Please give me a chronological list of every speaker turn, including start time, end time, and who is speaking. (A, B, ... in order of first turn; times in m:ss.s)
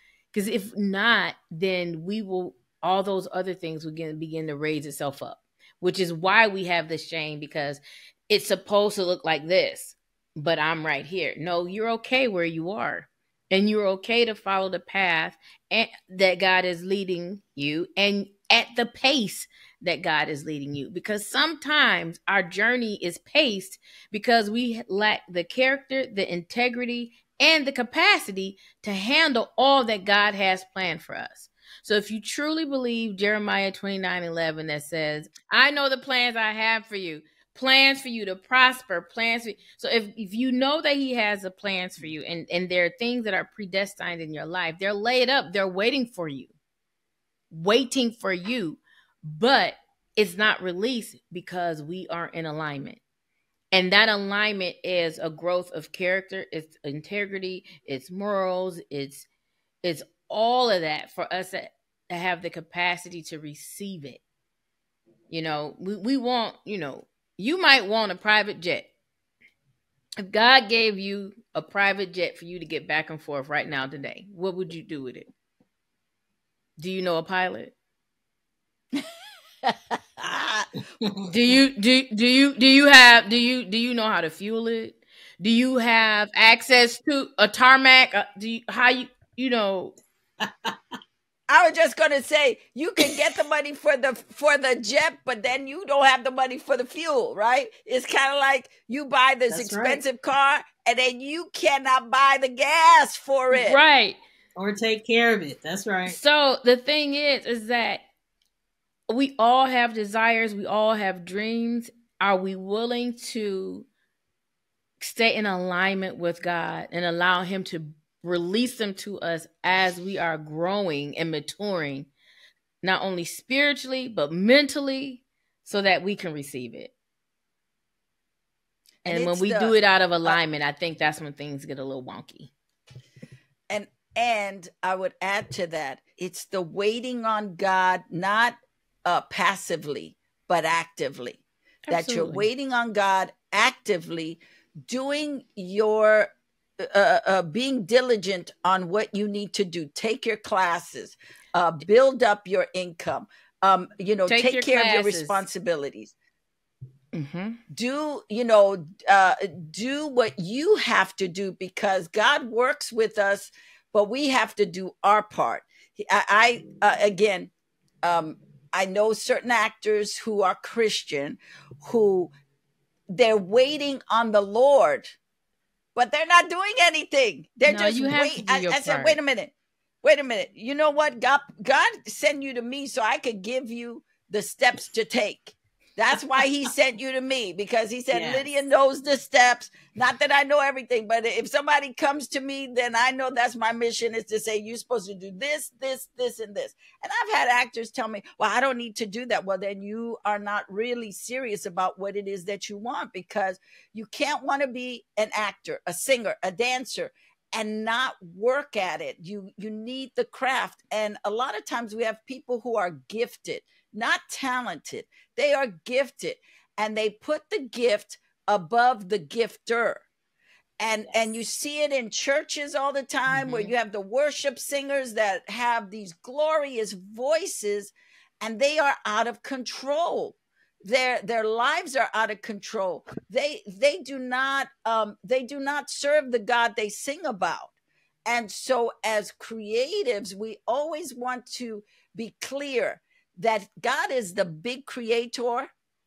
0:00.3-0:46.5 A
0:47.5-0:53.0 A
0:53.7-0:59.3 A
0:59.8-1:04.2 A
1:05.3-1:08.9 A
1:10.2-1:15.3 A
1:16.8-1:17.7 A
1:19.6-1:20.7 B
1:21.0-1:21.3 C
1:21.3-1:30.0 A
1:30.4-1:30.7 C
1:31.5-1:43.8 B
1:39.5-1:40.0 C
1:43.5-1:44.2 A
1:44.6-1:46.2 C
1:46.0-1:48.0 A
1:49.1-1:53.9 A
1:55.0-2:02.1 A
2:02.8-2:06.9 A
2:09.0-2:10.4 B
2:09.0-2:12.5 A
2:13.7-2:36.1 B
2:21.9-2:22.5 A
2:34.3-2:35.4 A
2:37.1-2:37.6 A
2:37.7-2:47.5 B
2:48.0-2:52.3 B
2:53.1-2:55.2 B
2:55.9-2:59.5 B
2:57.6-2:59.2 A
3:00.0-3:40.0 B
3:08.1-3:08.5 C
3:40.8-3:57.7 B
3:43.3-3:43.7 A
3:58.3-4:05.7 B